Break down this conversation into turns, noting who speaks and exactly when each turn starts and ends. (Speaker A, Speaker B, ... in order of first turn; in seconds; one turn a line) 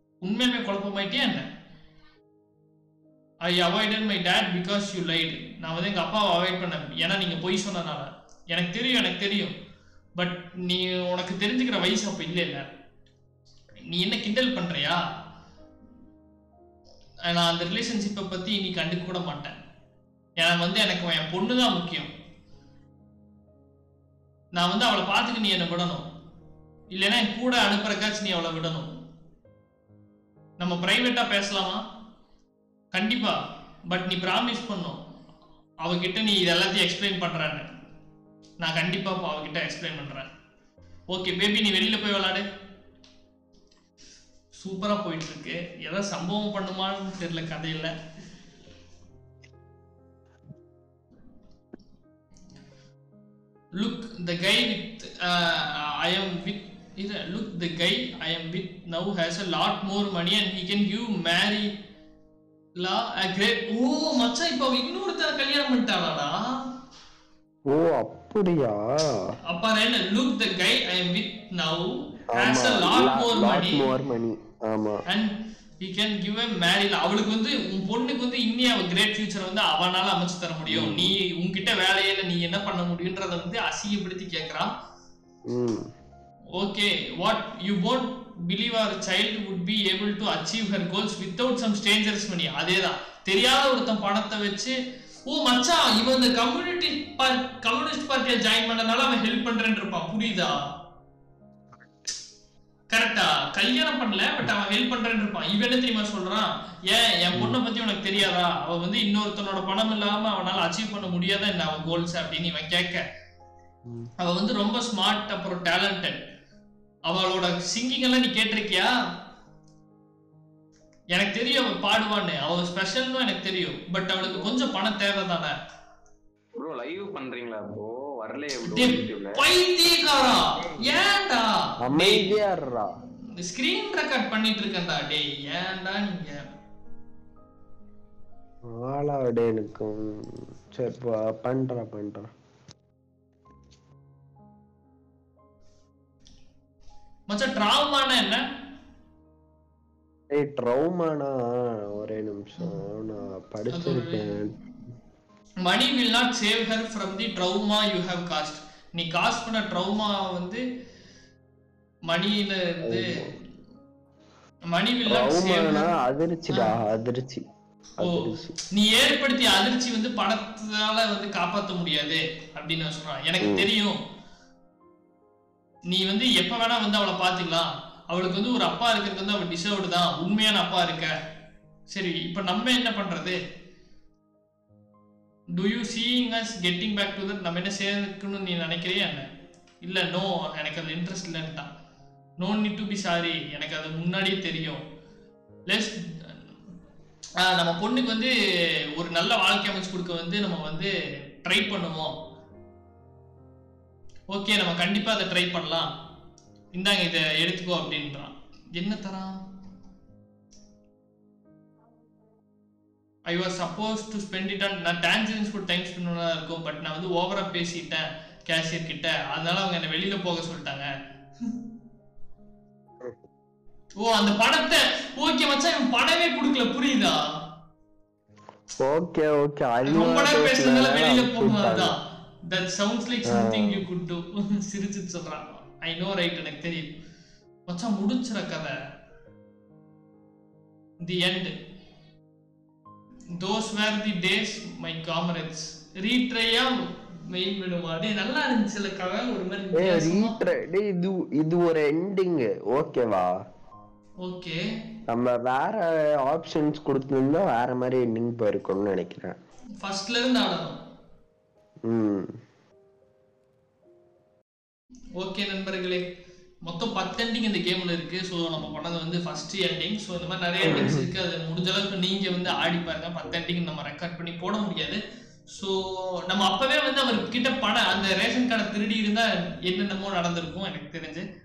Speaker A: 0.2-1.5
Speaker A: 3.4-9.5
Speaker A: 10.2-12.7
Speaker A: 13.9-15.0
Speaker A: 17.2-19.5
Speaker A: 20.4-22.1
Speaker A: 24.6-26.0
Speaker A: 26.9-28.9
Speaker A: 30.6-31.8
Speaker A: 32.9-33.4
Speaker A: 33.9-35.0
Speaker A: 35.8-37.6
Speaker A: 38.6-40.3
Speaker A: 41.1-42.4
Speaker A: 44.5-47.9
Speaker A: 53.8-61.7
Speaker A: 62.8-66.6
Speaker B: 67.7-69.4
Speaker A: 69.5-73.9
Speaker B: 72.3-75.0
Speaker A: 75.1-84.7
Speaker B: 80.7-81.1
Speaker B: 85.5-85.8
Speaker A: 86.6-94.7
Speaker A: 95.3-100.5
Speaker B: 101.8-102.1
Speaker A: 102.9-113.0
Speaker B: 113.8-114.1
Speaker A: 114.2-116.2
Speaker A: 117.1-118.9
Speaker A: 121.1-125.5
Speaker C: 126.6-129.4
Speaker A: 128.6-132.4
Speaker B: 131.8-132.9
Speaker A: 133.4-136.4
Speaker B: 138.7-142.3
Speaker A: 147.3-148.4
Speaker B: 150.3-154.5
Speaker A: 153.7-154.4
Speaker A: 155.6-160.6
Speaker A: 162.1-163.3
Speaker B: 162.8-163.3
Speaker A: 164.7-165.9
Speaker B: 165.1-167.5
Speaker A: 166.5-166.8
Speaker B: 168.0-168.5
Speaker A: 168.0-174.0
Speaker B: 173.4-173.7
Speaker A: 175.9-181.1
Speaker A: 181.9-183.4
Speaker A: 185.5-189.2
Speaker A: 189.8-191.7
Speaker A: 192.4-194.8
Speaker A: 195.7-196.3
Speaker A: 197.4-198.3
Speaker A: 198.9-200.9
Speaker A: 201.4-202.1
Speaker A: 204.3-205.9
Speaker A: 206.7-209.3
Speaker A: 213.3-220.9
Speaker A: 224.0-227.2
Speaker B: 228.8-231.9
Speaker A: 229.8-231.9
Speaker A: 232.5-236.9
Speaker B: 233.3-233.8
Speaker A: 237.7-238.7
Speaker A: 241.0-241.5
Speaker A: 243.4-246.7
Speaker A: 247.3-250.3
Speaker B: 249.8-253.3
Speaker A: 254.2-254.6
Speaker B: 255.1-259.4
Speaker A: 259.8-260.8
Speaker B: 261.9-262.4
Speaker A: 265.2-266.0
Speaker A: 266.6-275.0
Speaker B: 270.6-271.0
Speaker A: 275.5-281.2